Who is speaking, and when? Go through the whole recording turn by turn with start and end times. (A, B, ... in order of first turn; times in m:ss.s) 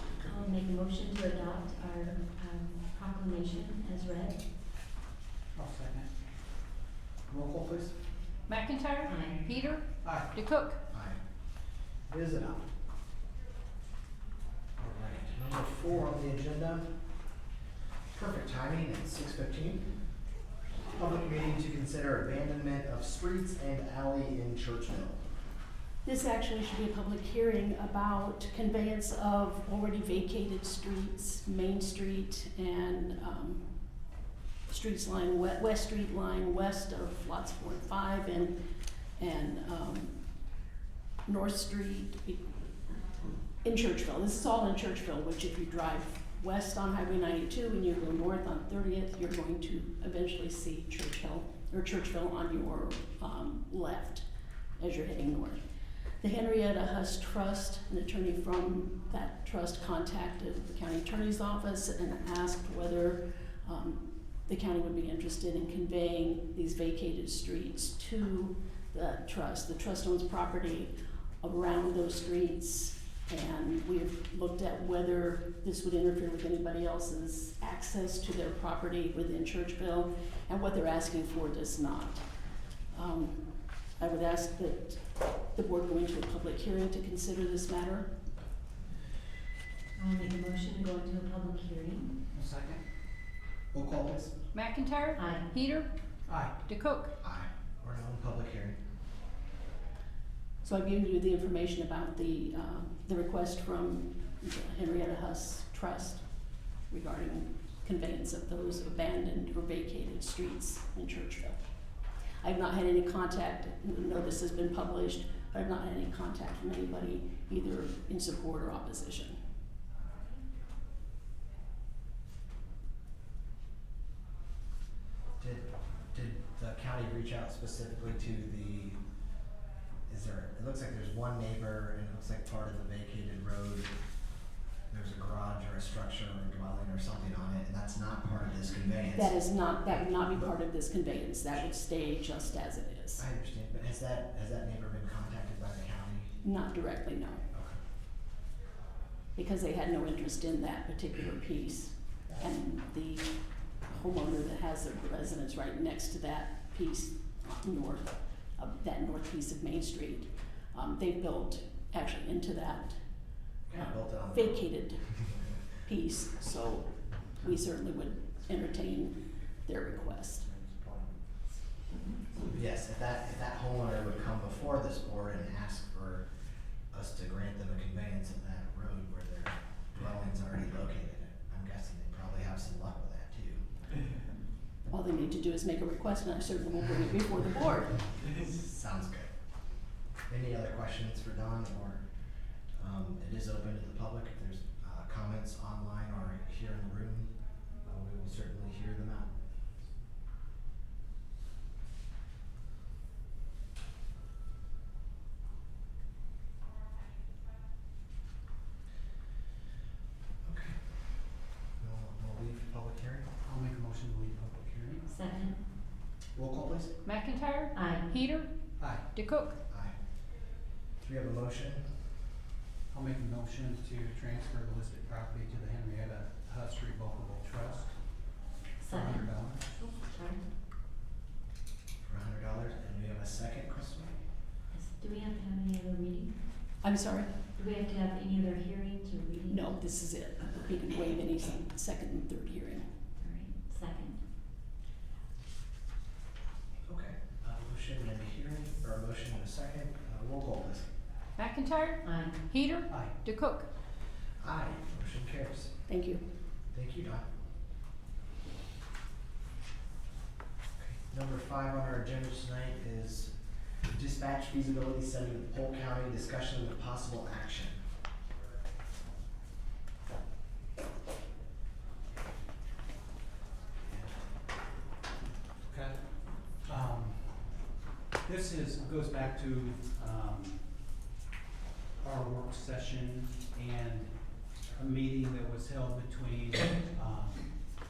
0:00.2-0:04.4 A
0:05.5-0:06.1 B
0:07.3-0:07.9 B
0:08.5-0:10.8 C
0:09.1-0:09.5 A
0:10.0-0:10.3 B
0:10.9-0:11.2 D
0:12.1-0:12.7 D
0:14.8-0:16.9 D
0:18.1-0:19.8 D
0:20.9-0:25.2 D
0:26.0-0:33.6 E
0:34.7-0:38.5 E
0:39.2-0:40.2 E
0:41.2-0:42.5 E
0:43.6-0:54.2 E
0:54.8-0:55.6 E
0:56.2-1:22.2 E
1:22.9-1:23.4 E
1:24.0-1:25.0 E
1:25.5-1:28.1 E
1:30.0-1:32.1 A
1:32.3-1:32.8 B
1:33.7-1:34.3 D
1:34.5-1:35.9 C
1:35.2-1:35.5 A
1:36.3-1:36.6 B
1:36.6-1:37.1 C
1:37.2-1:38.8 D
1:40.6-1:46.2 E
1:46.9-1:51.6 E
1:52.4-1:59.4 E
2:05.4-2:09.0 D
2:10.1-2:13.9 D
2:14.9-2:19.4 D
2:19.1-2:23.2 E
2:23.2-2:26.4 D
2:26.4-2:27.4 E
2:27.5-2:27.8 D
2:29.4-2:33.3 E
2:33.9-2:43.0 E
2:43.7-2:44.6 D
2:44.3-2:45.1 E
2:45.8-2:50.5 E
2:50.5-2:51.1 D
2:52.4-2:56.2 D
2:56.9-3:03.6 D
3:04.9-3:08.0 E
3:08.2-3:09.3 D
3:10.3-3:12.0 D
3:12.7-3:17.3 D
3:17.8-3:19.3 D
3:30.4-3:30.8 D
3:31.8-3:33.3 D
3:33.4-3:35.0 B
3:35.0-3:35.6 A
3:36.3-3:36.9 D
3:37.0-3:38.5 C
3:37.7-3:38.1 A
3:38.8-3:39.1 B
3:39.1-3:39.6 C
3:39.7-3:39.9 D
3:41.0-3:41.9 D
3:42.9-3:48.0 B
3:48.8-3:50.4 A
3:48.9-3:49.7 B
3:52.0-3:54.1 D
3:54.7-3:56.3 A
3:56.8-3:57.3 E
3:57.6-3:59.7 A
3:59.5-4:02.9 E
4:03.2-4:04.2 A
4:06.8-4:10.9 D
4:11.4-4:13.7 C
4:12.0-4:12.4 A
4:12.9-4:13.2 B
4:14.4-4:15.7 D
4:15.9-4:16.2 E
4:16.7-4:17.3 D
4:20.8-4:23.3 D
4:23.9-4:27.8 D
4:33.8-4:34.2 B
4:35.6-4:36.0 B
4:36.6-4:37.4 B
4:38.2-4:40.6 B
4:42.0-4:44.1 B
4:44.7-4:47.5 B